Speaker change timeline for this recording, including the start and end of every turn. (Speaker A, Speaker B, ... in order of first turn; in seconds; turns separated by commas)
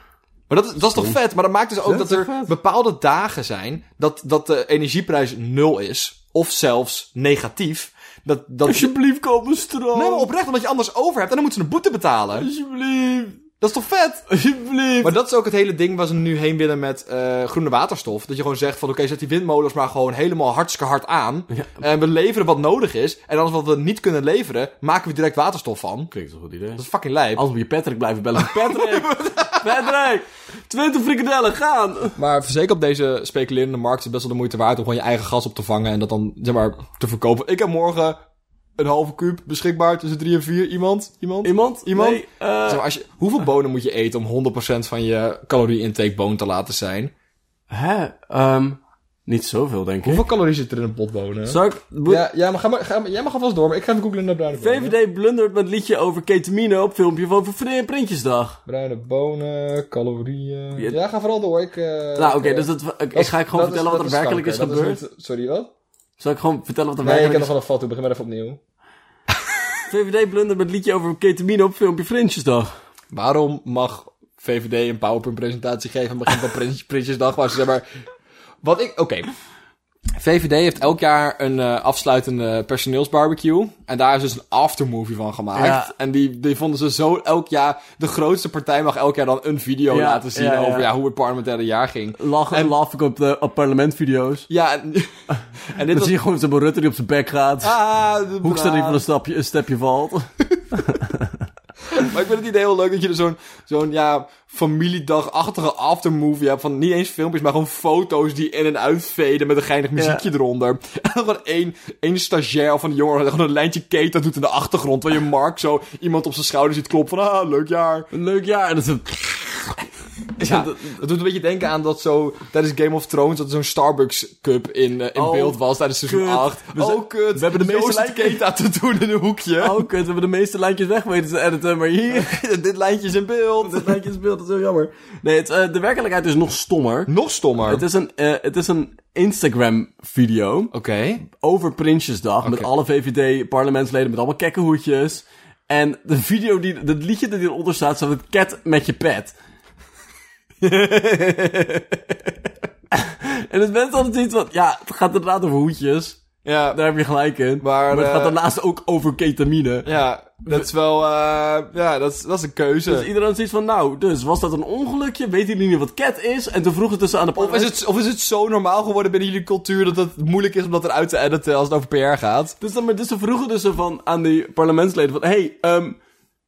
Speaker A: 0.5-8.9, Speaker B: 1.8-2.5, Speaker B: 8.7-10.3, Speaker A: 9.9-12.5, Speaker B: 12.3-13.4, Speaker A: 13.6-14.2, Speaker B: 14.3-15.1, Speaker A: 15.0-26.1, Speaker B: 26.1-26.8, Speaker A: 26.8-27.4, Speaker B: 27.3-32.2, Speaker A: 28.4-29.9, Speaker A: 32.2-38.2, Speaker A: 38.8-47.1, Speaker B: 41.4-42.8, Speaker B: 47.7-50.2, Speaker A: 50.0-54.9, Speaker B: 51.5-52.2, Speaker B: 54.5-58.6, Speaker A: 58.7-65.7, Speaker B: 62.2-65.0, Speaker B: 66.2-67.5, Speaker A: 67.0-68.6, Speaker B: 69.9-72.7, Speaker A: 73.1-77.8, Speaker A: 78.6-79.3, Speaker A: 80.2-92.7, Speaker B: 85.5-85.9, Speaker B: 89.9-90.9, Speaker B: 92.2-94.5, Speaker A: 94.5-96.1, Speaker B: 95.9-97.8, Speaker A: 97.6-99.0, Speaker B: 98.4-101.5, Speaker A: 101.9-118.1, Speaker B: 110.0-110.2, Speaker B: 118.1-119.8, Speaker B: 120.4-121.0, Speaker A: 120.4-129.8, Speaker B: 125.2-128.4, Speaker B: 129.6-132.3, Speaker A: 132.1-134.0, Speaker B: 133.6-137.1, Speaker A: 137.1-137.8, Speaker B: 137.7-140.7, Speaker A: 140.7-141.2, Speaker B: 141.3-149.3, Speaker A: 142.4-142.7, Speaker A: 150.6-152.0, Speaker B: 152.9-156.2, Speaker A: 156.4-156.8, Speaker B: 156.7-159.9, Speaker A: 157.6-158.3, Speaker A: 159.8-163.1, Speaker B: 162.9-167.7, Speaker A: 167.3-172.6, Speaker B: 172.6-176.0